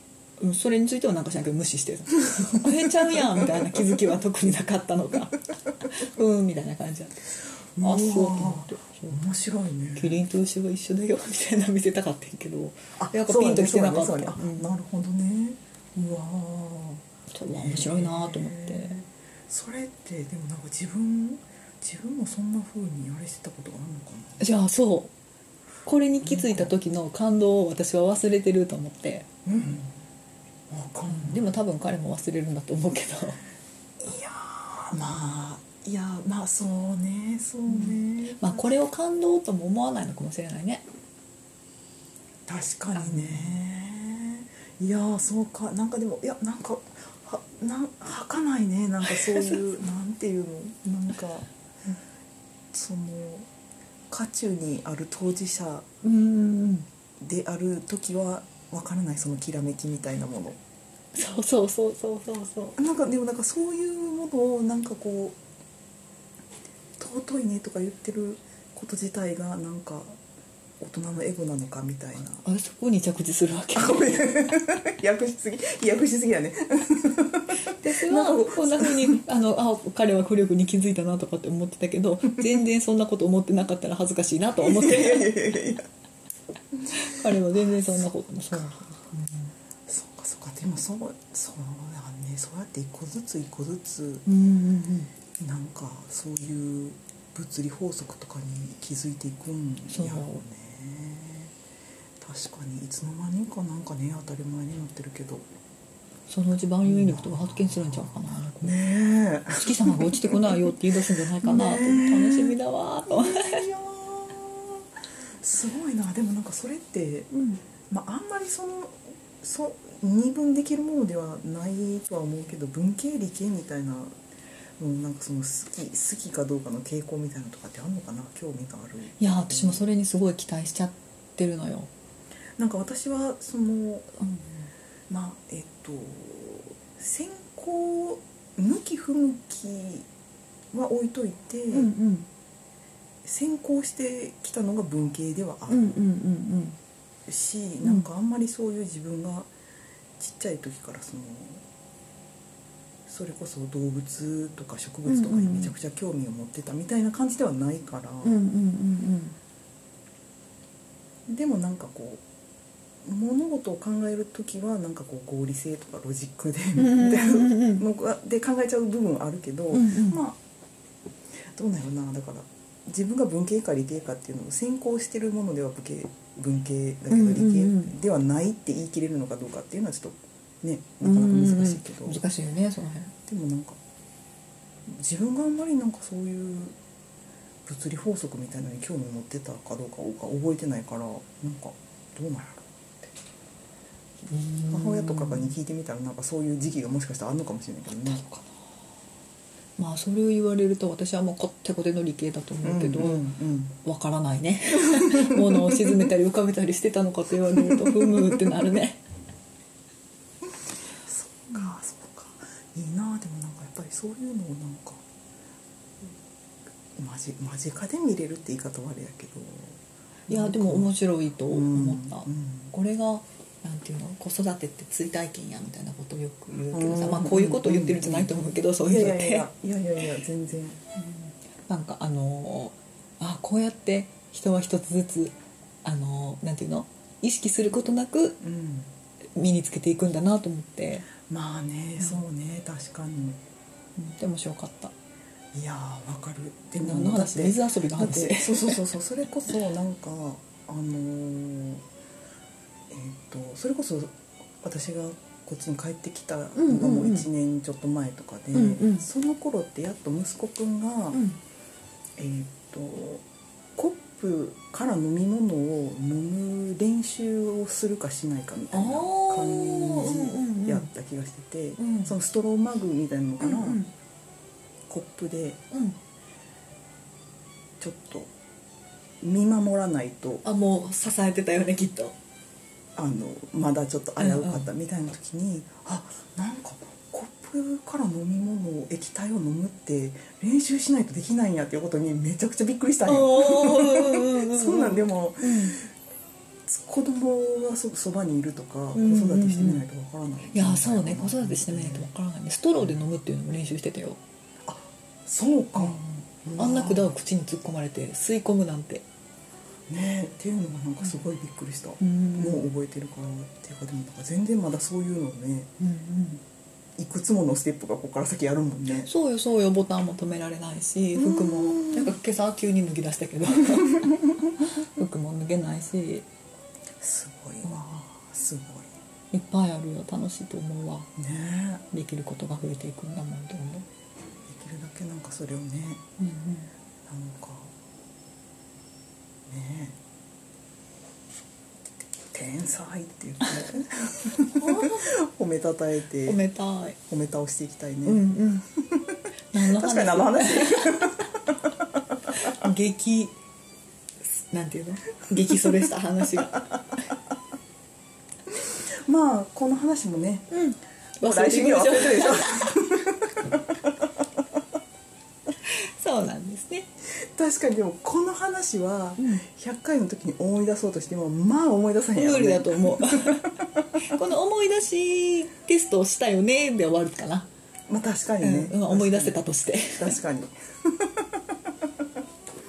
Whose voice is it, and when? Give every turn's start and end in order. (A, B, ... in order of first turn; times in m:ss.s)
0:00.4-0:09.2 A
0:02.3-0:03.8 B
0:07.8-0:10.2 B
0:10.0-0:14.7 A
0:13.0-0:24.4 B
0:17.3-0:19.0 A
0:24.4-0:25.1 A
0:25.8-0:29.3 A
0:26.2-0:26.7 B
0:29.4-0:30.0 B
0:30.7-0:31.5 B
0:31.1-0:33.4 A
0:34.0-0:38.7 B
0:37.7-0:40.8 A
0:42.5-0:51.5 B
0:42.9-0:43.6 A
0:49.0-0:49.6 A
0:52.7-0:53.5 B
0:54.1-0:55.9 B
0:56.0-0:56.9 A
0:57.2-1:00.6 B
1:01.2-1:02.8 A
1:02.8-1:05.4 B
1:07.0-1:10.2 B
1:10.8-1:12.4 B
1:12.4-1:14.3 A
1:13.8-1:19.2 B
1:17.7-1:25.4 A
1:24.6-1:25.9 B
1:26.8-1:29.2 B
1:26.9-1:29.1 A
1:29.9-1:34.3 B
1:34.3-1:35.1 A
1:35.4-1:41.5 B
1:39.9-1:40.4 A
1:42.2-1:45.5 B
1:46.3-1:48.8 A
1:46.8-1:50.8 B
1:49.5-1:53.6 A
1:51.4-1:52.6 B
1:53.1-1:54.9 B
1:55.4-1:57.3 B
1:57.3-1:57.6 A
1:57.9-2:04.2 B
2:04.8-2:09.8 B
2:09.2-2:11.9 A
2:12.6-2:14.4 B
2:15.1-2:20.1 B
2:20.7-2:21.9 B
2:21.7-2:22.3 A
2:23.2-2:26.0 B
2:25.7-2:26.8 A
2:27.3-2:29.5 B
2:30.2-2:31.6 B
2:33.1-2:38.4 B
2:35.1-2:35.7 A
2:38.2-2:39.4 A
2:41.3-2:42.2 B
2:43.0-2:50.4 B
2:46.8-2:47.9 A
2:49.7-2:50.2 A
2:51.5-3:02.2 B
2:57.1-2:57.9 A
3:01.0-3:03.1 A
3:03.3-3:03.8 B
3:04.9-3:06.8 B
3:07.7-3:13.1 B
3:14.3-3:15.5 A
3:14.7-3:18.2 B
3:17.9-3:18.5 A
3:19.8-3:23.3 A
3:22.6-3:23.8 B
3:23.8-3:29.0 A
3:24.8-3:26.1 B
3:27.5-3:28.8 B
3:31.0-3:35.0 B
3:37.0-3:40.9 B
3:40.3-3:49.5 A
3:41.5-3:42.7 B
3:46.7-3:50.8 B
3:51.0-3:55.3 A
3:55.8-3:58.4 A
3:58.4-3:58.9 B
3:59.4-4:01.1 A
4:01.2-4:03.4 B
4:04.0-4:04.9 A
4:05.5-4:11.8 B
4:06.8-4:08.8 A
4:12.9-4:21.2 B
4:16.6-4:17.3 A
4:18.5-4:19.0 A
4:21.1-4:21.4 A
4:22.2-4:23.2 B
4:23.8-4:33.8 B
4:28.7-4:30.9 A
4:31.8-4:32.2 A
4:33.4-4:33.9 A
4:34.9-4:35.6 B
4:35.7-4:36.0 A
4:37.8-4:38.3 B
4:39.2-4:40.4 B
4:40.4-4:42.2 A
4:43.0-4:55.9 B
4:44.2-4:44.7 A
4:53.1-4:55.8 A
4:56.7-5:02.1 B
4:58.9-4:59.8 A
5:00.5-5:04.2 A
5:04.6-5:07.1 B
5:05.8-5:06.0 A
5:06.6-5:09.0 A
5:09.9-5:15.7 B
5:12.0-5:12.7 A
5:15.8-5:16.4 A
5:17.0-5:19.1 B
5:18.9-5:24.2 A
5:21.2-5:22.1 B
5:23.7-5:24.1 B
5:24.8-5:26.3 A
5:27.0-5:28.9 B
5:27.6-5:28.0 A
5:29.3-5:31.1 A
5:31.2-5:31.8 B
5:31.9-5:33.9 A
5:34.5-5:36.0 B
5:36.2-5:36.7 A
5:37.1-5:37.7 B
5:39.5-5:40.0 B
5:42.3-5:46.4 B
5:44.5-5:45.1 A
5:46.3-5:47.0 A
5:47.0-5:52.5 B
5:48.0-5:48.6 A
5:49.5-5:51.2 A
5:52.3-5:53.3 A
5:54.4-5:56.7 A
5:55.6-5:55.9 B
5:58.5-6:00.5 B
6:00.5-6:02.7 A
6:01.2-6:04.1 B
6:05.6-6:06.9 A
6:07.1-6:14.0 B
6:09.2-6:09.4 A
6:12.2-6:17.5 A
6:17.9-6:21.9 B
6:18.4-6:20.2 A